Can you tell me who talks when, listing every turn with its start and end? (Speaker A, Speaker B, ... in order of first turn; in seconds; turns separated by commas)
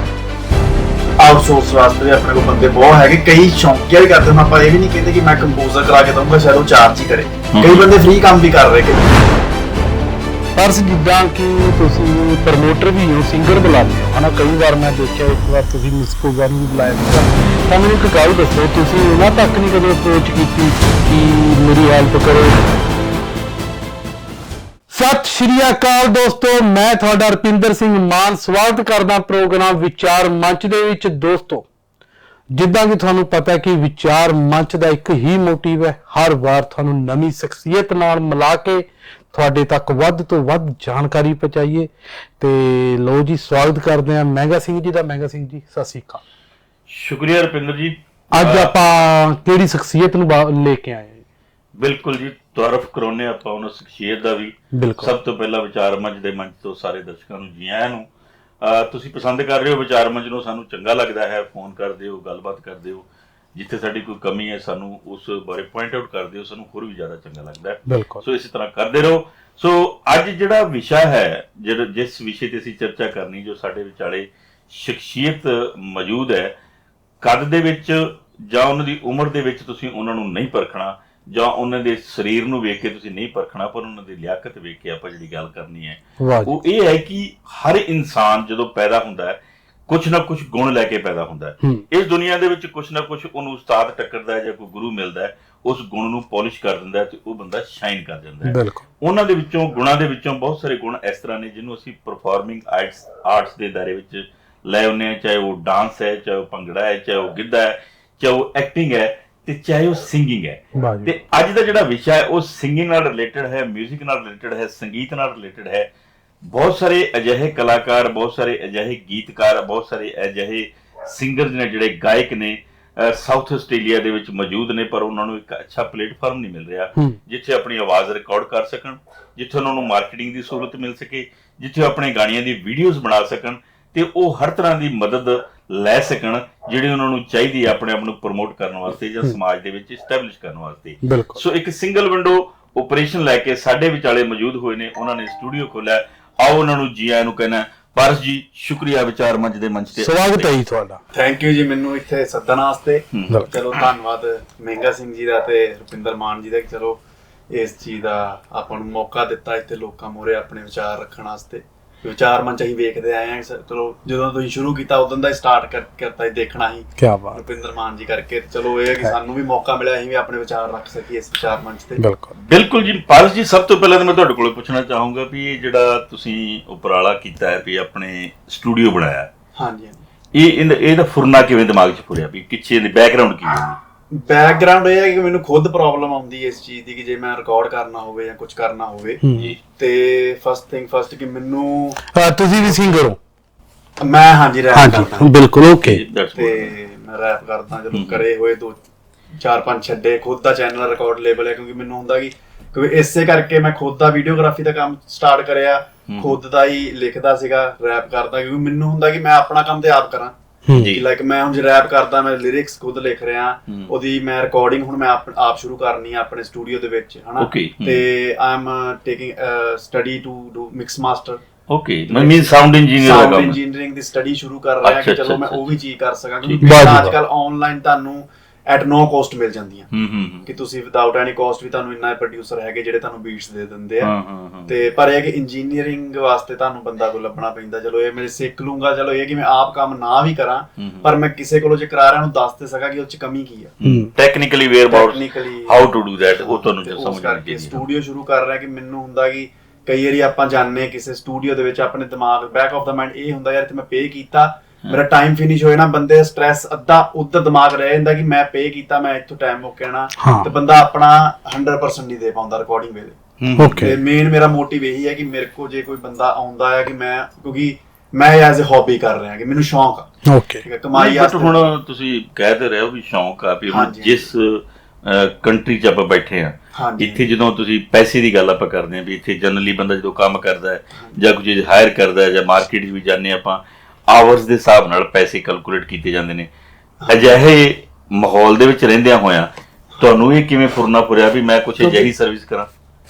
Speaker A: 1.2-9.2, Speaker B: 7.5-7.9, Speaker C: 10.6-22.6, Speaker C: 24.9-31.6, Speaker C: 32.5-46.2, Speaker B: 46.9-48.8, Speaker C: 48.3-51.2, Speaker B: 51.8-58.1, Speaker C: 54.7-55.1, Speaker B: 58.6-76.5, Speaker C: 67.9-68.2, Speaker B: 77.2-115.9, Speaker C: 86.2-86.5, Speaker C: 98.4-98.8, Speaker C: 110.8-111.1, Speaker B: 116.4-150.5, Speaker C: 141.0-141.4, Speaker C: 150.0-151.0, Speaker A: 151.1-172.0, Speaker B: 153.1-153.8, Speaker C: 167.0-167.4, Speaker C: 172.0-172.3, Speaker B: 172.3-179.3, Speaker A: 179.6-180.0, Speaker B: 180.3-183.8, Speaker A: 184.1-189.2, Speaker C: 189.2-189.5, Speaker A: 189.8-192.0, Speaker C: 192.1-193.2, Speaker A: 194.0-195.4, Speaker C: 194.7-196.0, Speaker B: 195.8-196.7, Speaker A: 196.3-198.8, Speaker B: 197.9-198.2, Speaker A: 199.4-210.3, Speaker B: 206.1-206.4, Speaker B: 210.8-211.0, Speaker A: 210.9-221.4, Speaker B: 217.4-218.1, Speaker B: 221.7-223.6, Speaker A: 222.1-229.9, Speaker B: 224.8-225.8, Speaker B: 226.4-226.9, Speaker C: 226.6-227.1, Speaker B: 229.9-230.5, Speaker A: 230.4-234.1, Speaker B: 234.0-234.8, Speaker A: 234.7-243.7, Speaker B: 240.8-241.1, Speaker B: 243.8-247.8, Speaker C: 243.8-244.1, Speaker A: 244.9-263.2, Speaker C: 260.2-260.5, Speaker B: 263.4-263.9, Speaker C: 263.6-263.9, Speaker A: 263.7-270.1, Speaker C: 270.2-270.6, Speaker A: 270.6-271.7, Speaker B: 270.9-286.5, Speaker A: 273.7-274.3, Speaker A: 276.7-277.3, Speaker A: 280.9-281.2, Speaker A: 287.0-287.4, Speaker B: 287.1-292.7, Speaker A: 291.8-292.1